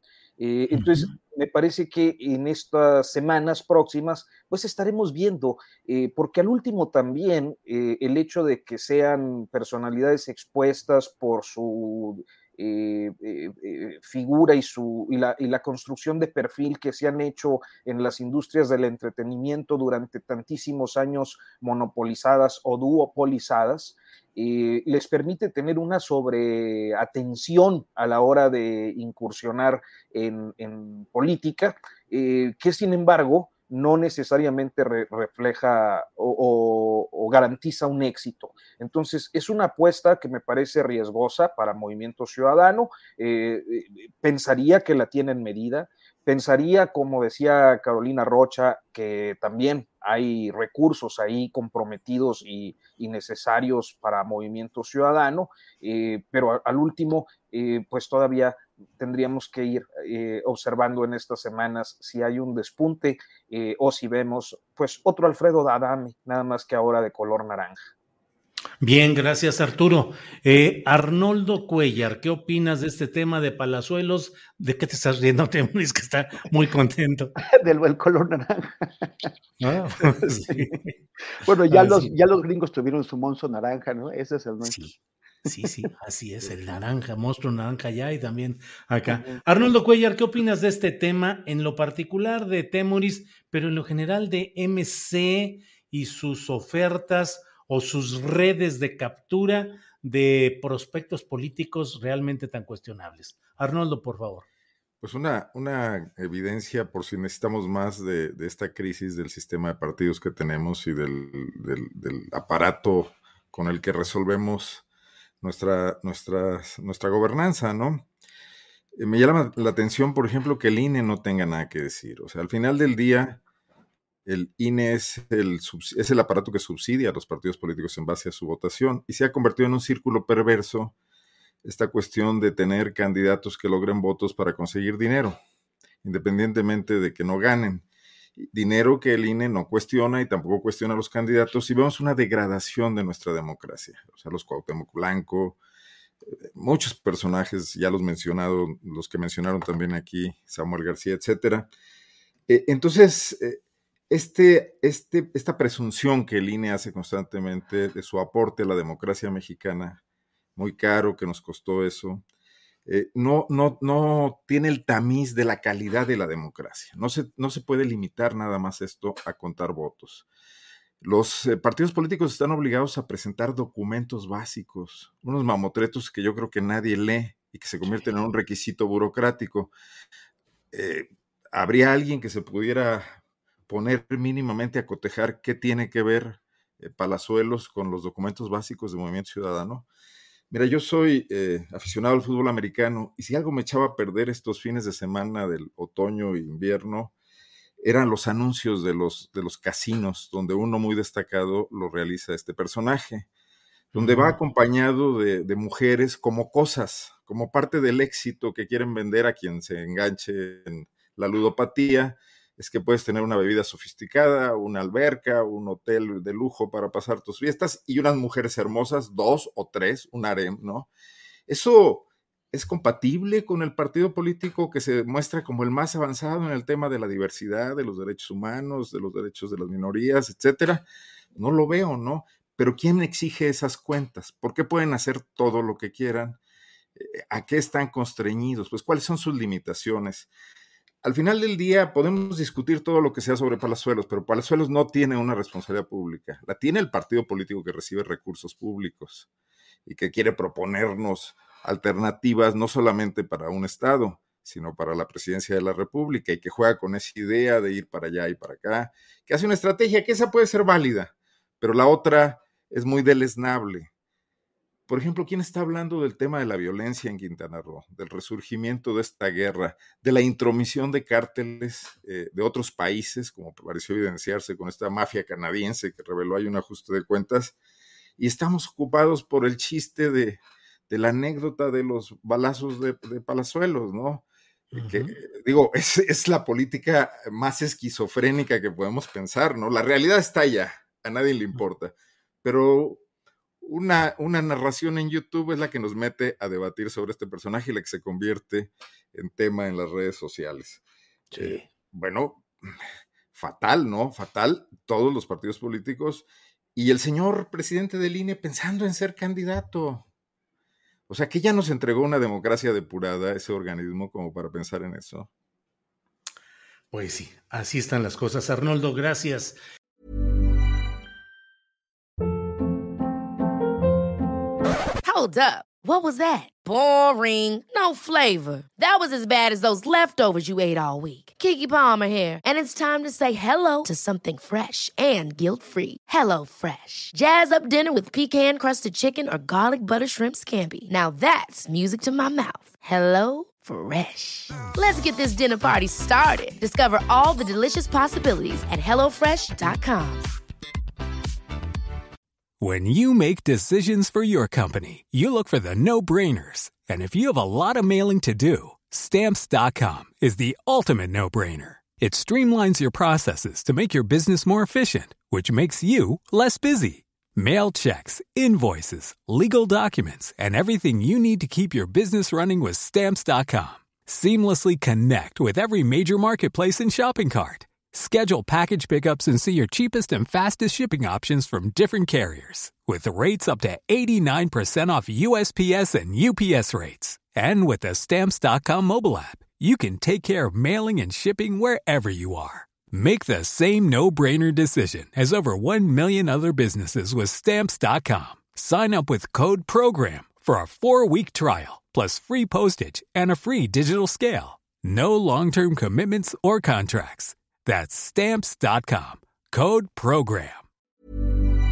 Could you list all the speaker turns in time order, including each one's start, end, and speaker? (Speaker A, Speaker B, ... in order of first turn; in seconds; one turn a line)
Speaker A: 0.4-67.8
Speaker B: 68.8-77.3
Speaker C: 77.5-79.3
Speaker B: 79.6-80.8
Speaker C: 80.1-80.7
Speaker C: 81.3-84.8
Speaker B: 81.7-82.1
Speaker B: 84.6-85.0
Speaker B: 85.5-104.5
Speaker C: 85.5-85.8
Speaker C: 89.1-89.4
Speaker D: 105.0-114.8
Speaker D: 115.4-118.1
Speaker D: 119.0-123.4
Speaker D: 124.3-130.9
Speaker D: 131.6-135.4
Speaker D: 136.0-137.9
Speaker D: 138.4-145.6
Speaker D: 146.6-151.7
Speaker D: 152.5-160.0
Speaker D: 160.6-162.2
Speaker D: 162.9-170.3
Speaker D: 171.0-179.7
Speaker D: 180.7-189.9
Speaker D: 190.5-197.1
Speaker D: 197.8-203.3
Speaker B: 203.9-204.3
Speaker D: 203.9-220.9
Speaker D: 221.5-236.4
Speaker D: 237.0-240.3
Speaker D: 241.0-249.3
Speaker D: 249.9-263.9
Speaker D: 264.9-277.6
Speaker D: 278.2-293.0
Speaker B: 284.8-285.1
Speaker D: 293.6-302.4
Speaker B: 301.3-301.6
Speaker D: 303.3-310.1
Speaker D: 311.1-315.3
Speaker B: 316.9-319.6
Speaker E: 325.0-350.3
Speaker F: 352.6-410.6